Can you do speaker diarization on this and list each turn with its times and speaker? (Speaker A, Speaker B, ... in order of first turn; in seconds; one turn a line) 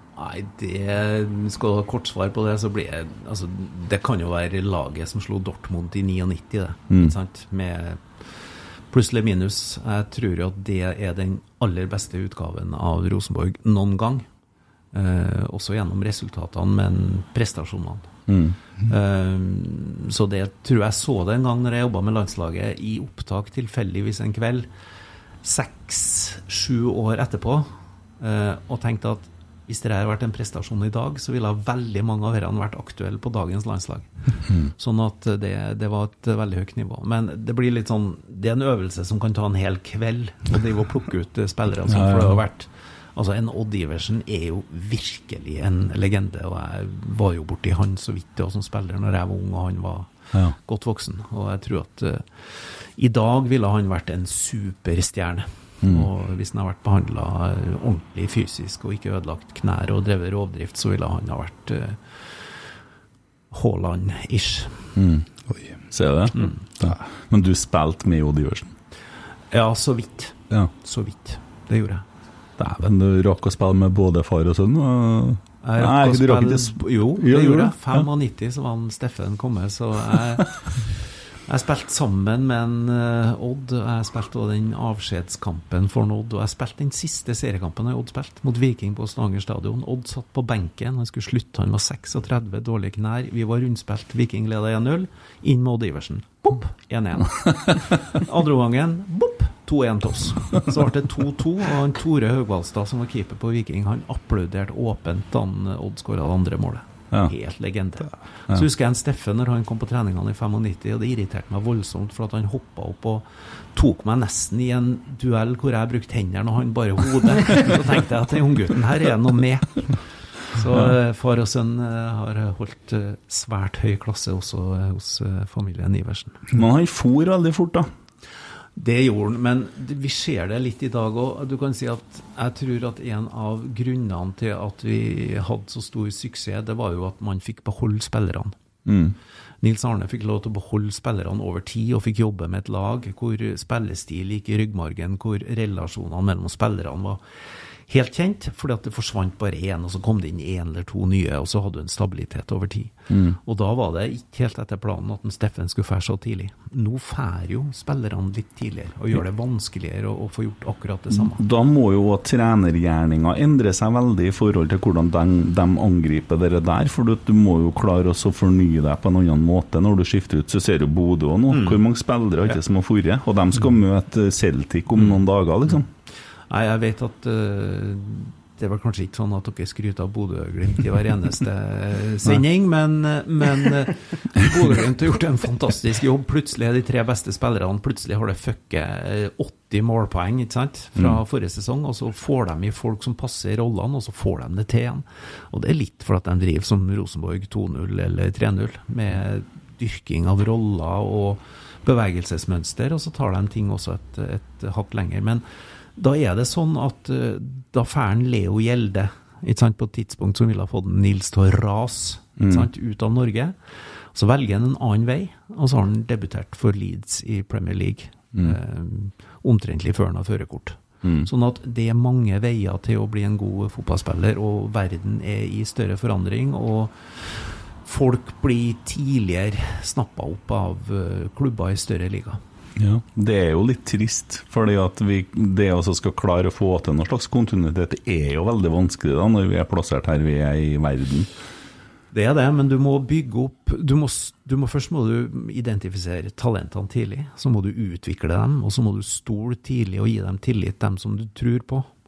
Speaker A: 0.1-8.4
Speaker A: 8.9-14.2
Speaker A: 14.9-18.1
Speaker B: 18.3-18.6
Speaker A: 18.8-24.7
Speaker A: 25.4-62.7
Speaker B: 41.9-42.4
Speaker A: 63.5-64.9
Speaker B: 65.0-65.2
Speaker B: 65.9-68.7
Speaker A: 66.3-66.6
Speaker A: 69.5-72.0
Speaker B: 72.6-78.0
Speaker A: 75.6-126.5
Speaker B: 126.5-127.9
Speaker A: 128.8-138.5
Speaker B: 138.8-139.2
Speaker A: 139.6-147.2
Speaker A: 147.9-161.4
Speaker B: 153.1-153.4
Speaker B: 161.1-175.9
Speaker A: 171.5-171.8
Speaker A: 176.5-205.4
Speaker A: 205.9-213.6
Speaker B: 212.4-212.7
Speaker A: 214.1-232.4
Speaker B: 221.0-221.3
Speaker B: 232.8-241.3
Speaker A: 242.1-251.9